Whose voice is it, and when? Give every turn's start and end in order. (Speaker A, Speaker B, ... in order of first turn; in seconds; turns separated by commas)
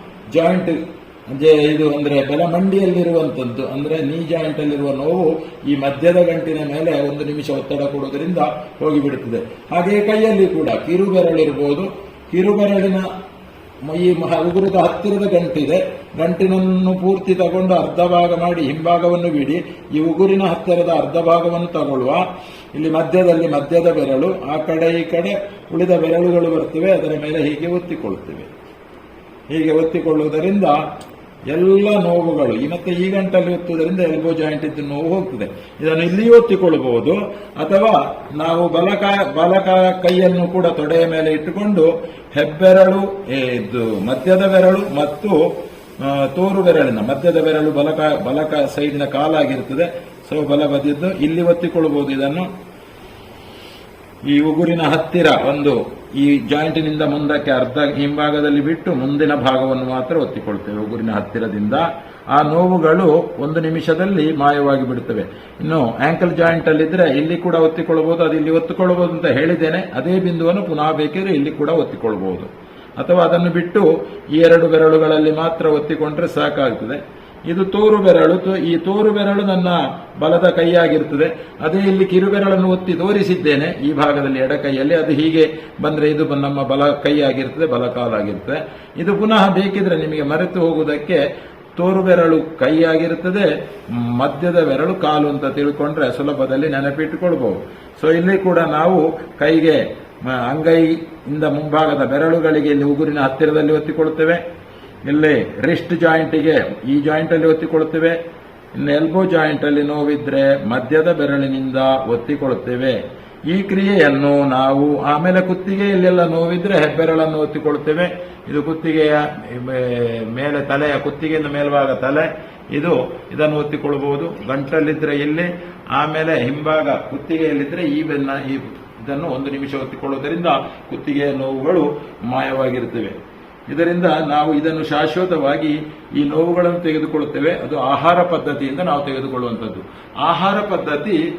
Speaker A: 0.3-0.8, Speaker A: 1.3-13.1, Speaker A: 13.8-28.5, Speaker A: 29.5-30.8, Speaker A: 31.5-45.4, Speaker A: 46.0-52.5, Speaker A: 54.3-91.2, Speaker A: 91.8-104.4, Speaker A: 105.0-108.1, Speaker A: 108.7-113.0, Speaker A: 113.5-133.1, Speaker A: 133.7-141.2